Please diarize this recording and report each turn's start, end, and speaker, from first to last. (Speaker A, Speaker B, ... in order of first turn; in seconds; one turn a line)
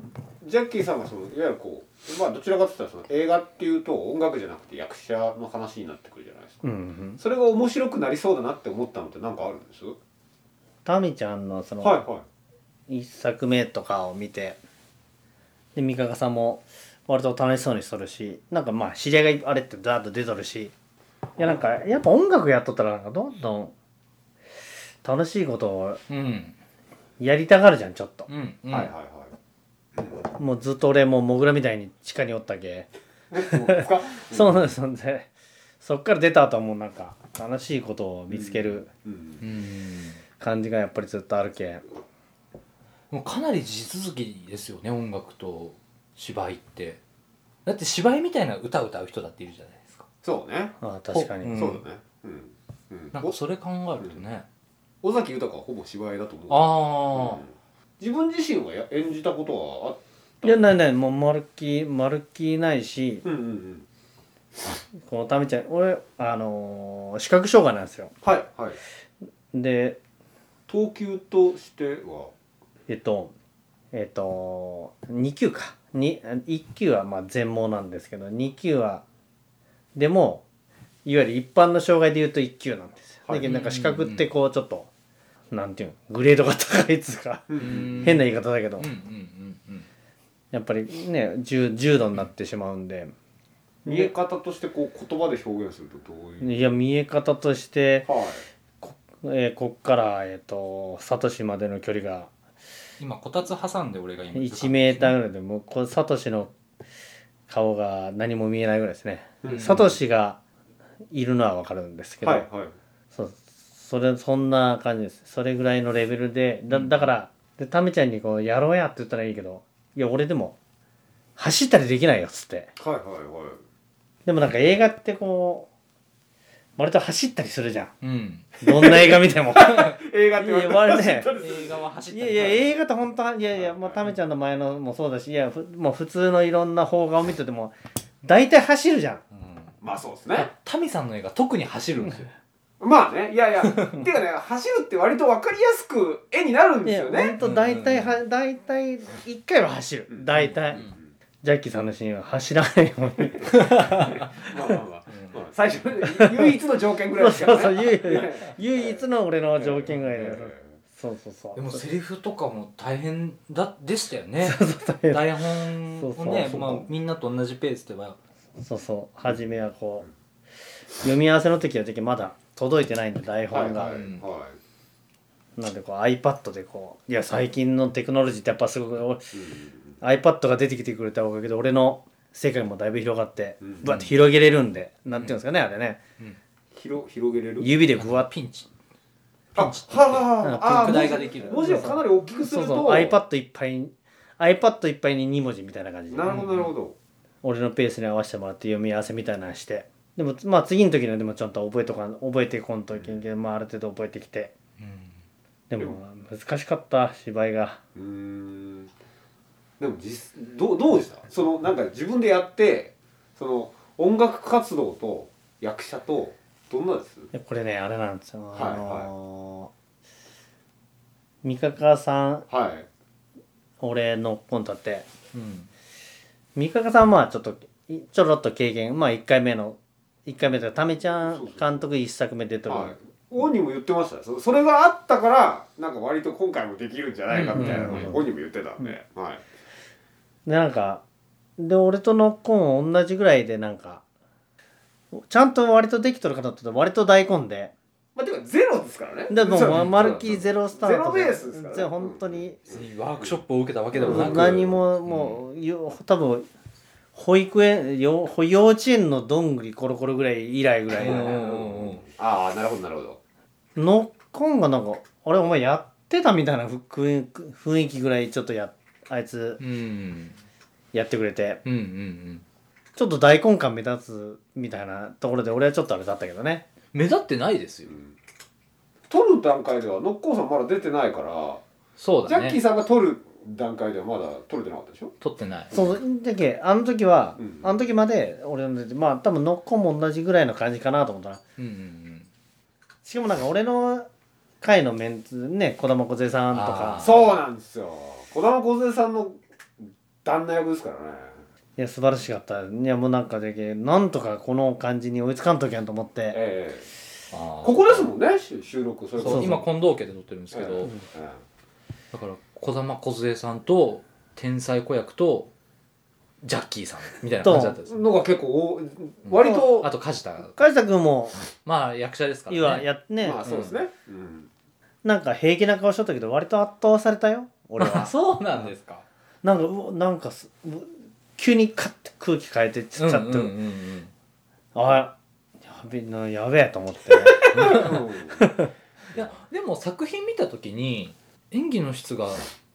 Speaker A: 0.4-6.6
Speaker B: 6.6-7.2
Speaker A: 7.2-9.9
Speaker B: 10.8-12.0
Speaker A: 11.8-12.2
Speaker B: 12.9-14.6
Speaker B: 15.7-20.7
Speaker A: 21.4-21.9
Speaker B: 21.4-23.7
Speaker B: 25.0-26.0
Speaker C: 26.1-26.6
Speaker B: 27.2-28.3
Speaker C: 28.3-28.9
Speaker A: 28.7-29.3
Speaker B: 30.4-32.9
Speaker A: 33.3-34.7
Speaker B: 33.4-38.9
Speaker A: 38.3-39.4
Speaker C: 39.4-40.2
Speaker B: 40.4-41.8
Speaker C: 43.1-47.0
Speaker C: 47.6-50.0
Speaker A: 50.2-50.8
Speaker B: 50.8-51.8
Speaker C: 51.1-51.8
Speaker A: 51.5-53.4
Speaker C: 53.1-54.5
Speaker A: 55.0-60.6
Speaker C: 56.5-57.4
Speaker B: 60.4-63.2
Speaker A: 63.2-63.9
Speaker B: 65.0-68.1
Speaker A: 68.2-68.8
Speaker B: 69.5-70.0
Speaker A: 70.7-72.3
Speaker B: 72.9-73.3
Speaker B: 73.9-79.0
Speaker B: 79.9-80.4
Speaker B: 81.0-84.9
Speaker C: 83.4-84.3
Speaker B: 85.5-88.9
Speaker A: 87.5-88.2
Speaker C: 87.6-88.3
Speaker C: 88.8-89.9
Speaker B: 90.5-93.1
Speaker B: 93.8-94.1
Speaker A: 93.8-96.7
Speaker B: 96.4-98.1
Speaker A: 98.0-98.5
Speaker B: 98.8-102.3
Speaker C: 103.0-105.2
Speaker B: 104.3-106.5
Speaker B: 107.5-110.4
Speaker A: 109.4-109.9
Speaker C: 109.5-109.8
Speaker B: 111.1-112.5
Speaker A: 112.2-112.7
Speaker B: 113.1-120.6
Speaker C: 116.7-117.0
Speaker B: 121.4-122.7
Speaker A: 122.8-123.6
Speaker B: 124.2-125.7
Speaker B: 126.8-127.9
Speaker C: 128.0-128.6
Speaker B: 128.6-131.3
Speaker A: 128.7-131.9
Speaker C: 129.6-129.9
Speaker C: 131.3-132.7
Speaker B: 132.1-139.2
Speaker A: 133.6-134.0
Speaker C: 139.3-139.7
Speaker A: 139.8-140.5
Speaker C: 140.3-142.3
Speaker A: 142.8-147.4
Speaker B: 146.8-150.8
Speaker C: 147.4-148.2
Speaker A: 150.1-151.1
Speaker C: 150.3-150.9
Speaker B: 151.4-154.1
Speaker C: 153.5-154.5
Speaker A: 153.8-159.0
Speaker C: 155.1-155.4
Speaker B: 156.2-156.5
Speaker B: 157.2-161.8
Speaker A: 159.6-160.7
Speaker C: 161.5-168.2
Speaker B: 164.4-165.3
Speaker B: 165.9-166.9
Speaker B: 168.6-170.1
Speaker B: 171.0-174.0
Speaker A: 173.5-174.6
Speaker C: 173.8-174.2
Speaker B: 175.6-179.3
Speaker A: 179.3-179.9
Speaker B: 180.0-186.0
Speaker A: 183.6-183.9
Speaker C: 183.8-184.1
Speaker C: 185.1-185.4
Speaker A: 186.7-187.7
Speaker B: 187.6-188.3
Speaker C: 187.9-188.7
Speaker C: 189.5-191.9
Speaker A: 189.5-193.2
Speaker B: 190.4-196.4
Speaker A: 196.1-196.9
Speaker C: 196.2-196.7
Speaker B: 197.4-204.5
Speaker A: 202.9-203.2
Speaker C: 204.8-205.2
Speaker B: 205.7-207.8
Speaker A: 207.9-208.9
Speaker A: 209.8-217.3
Speaker B: 217.3-219.7
Speaker A: 218.5-219.1
Speaker B: 221.4-222.5
Speaker A: 222.5-222.9
Speaker B: 223.8-225.1
Speaker C: 225.3-225.7
Speaker B: 226.5-232.9
Speaker A: 231.2-231.8
Speaker A: 232.7-239.4
Speaker C: 237.3-238.1
Speaker B: 237.5-238.2
Speaker B: 240.4-241.0
Speaker B: 241.6-244.0
Speaker B: 245.1-247.7
Speaker A: 248.2-253.4
Speaker B: 249.3-252.6
Speaker C: 249.7-250.0
Speaker C: 252.7-255.4
Speaker A: 253.9-254.8
Speaker B: 254.0-256.5
Speaker B: 257.1-261.4
Speaker C: 260.9-262.0
Speaker A: 261.0-263.2
Speaker B: 263.8-269.6
Speaker C: 269.6-270.4
Speaker B: 270.9-271.6
Speaker C: 271.6-272.4
Speaker B: 272.9-276.6
Speaker C: 276.9-278.0
Speaker A: 277.9-278.1
Speaker A: 279.1-281.6
Speaker C: 282.0-282.6
Speaker A: 282.2-285.1
Speaker C: 285.2-285.7
Speaker A: 285.7-286.0
Speaker B: 285.7-291.4
Speaker A: 287.4-287.7
Speaker C: 291.6-292.3
Speaker B: 293.0-294.1
Speaker B: 294.6-297.1
Speaker C: 296.5-297.3
Speaker A: 297.0-301.4
Speaker B: 301.8-306.4
Speaker A: 306.3-306.9
Speaker C: 307.3-308.1
Speaker A: 307.6-309.6
Speaker C: 309.2-310.9
Speaker B: 309.2-309.6
Speaker A: 310.5-311.4
Speaker C: 312.1-315.5
Speaker C: 316.4-318.0
Speaker B: 317.4-317.8
Speaker A: 317.9-319.9
Speaker C: 319.2-320.6
Speaker B: 319.4-319.7
Speaker B: 320.5-321.4
Speaker C: 321.6-322.9
Speaker B: 322.5-323.5
Speaker A: 323.2-324.5
Speaker C: 323.4-323.8
Speaker B: 325.0-328.1
Speaker C: 327.8-329.0
Speaker B: 329.4-333.5
Speaker C: 333.0-334.1
Speaker B: 334.7-338.7
Speaker A: 337.3-338.5
Speaker C: 337.5-338.0
Speaker C: 339.1-342.5